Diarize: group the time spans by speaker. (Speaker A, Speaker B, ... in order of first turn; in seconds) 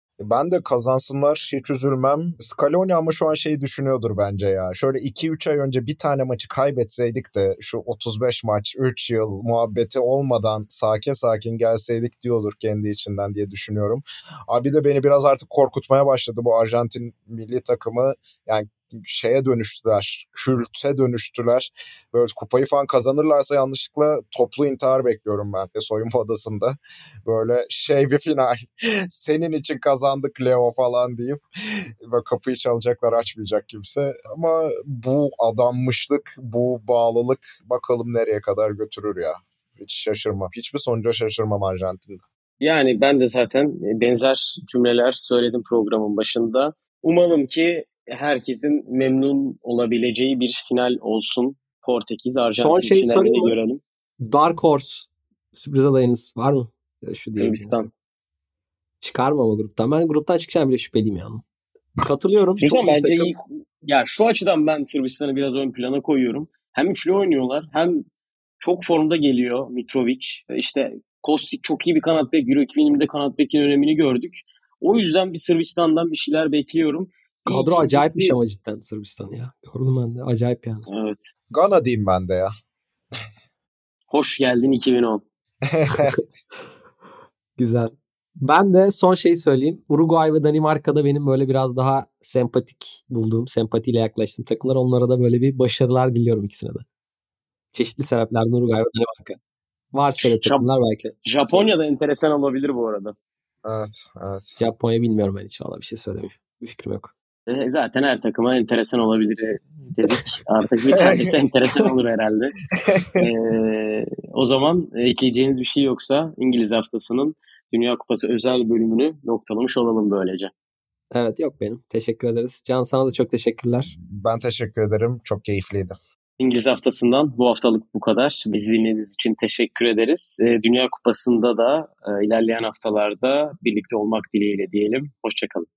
Speaker A: 0.2-42.2, 81.5-82.5, 85.7-86.2, 103.7-104.6, 111.0-111.2, 112.8-113.3, 124.2-126.0
Speaker B: 42.6-53.8, 57.3-57.9, 62.6-68.0, 68.6-78.4, 80.9-81.3, 84.1-85.2, 101.3-103.2, 107.5-112.6, 113.2-120.5, 126.4-135.7
Speaker C: 52.6-53.5, 54.2-57.9, 59.0-61.4, 62.0-63.3, 77.5-80.9, 86.0-86.2, 87.6-96.8, 97.7-99.4, 99.9-101.2, 104.6-107.1, 121.1-123.9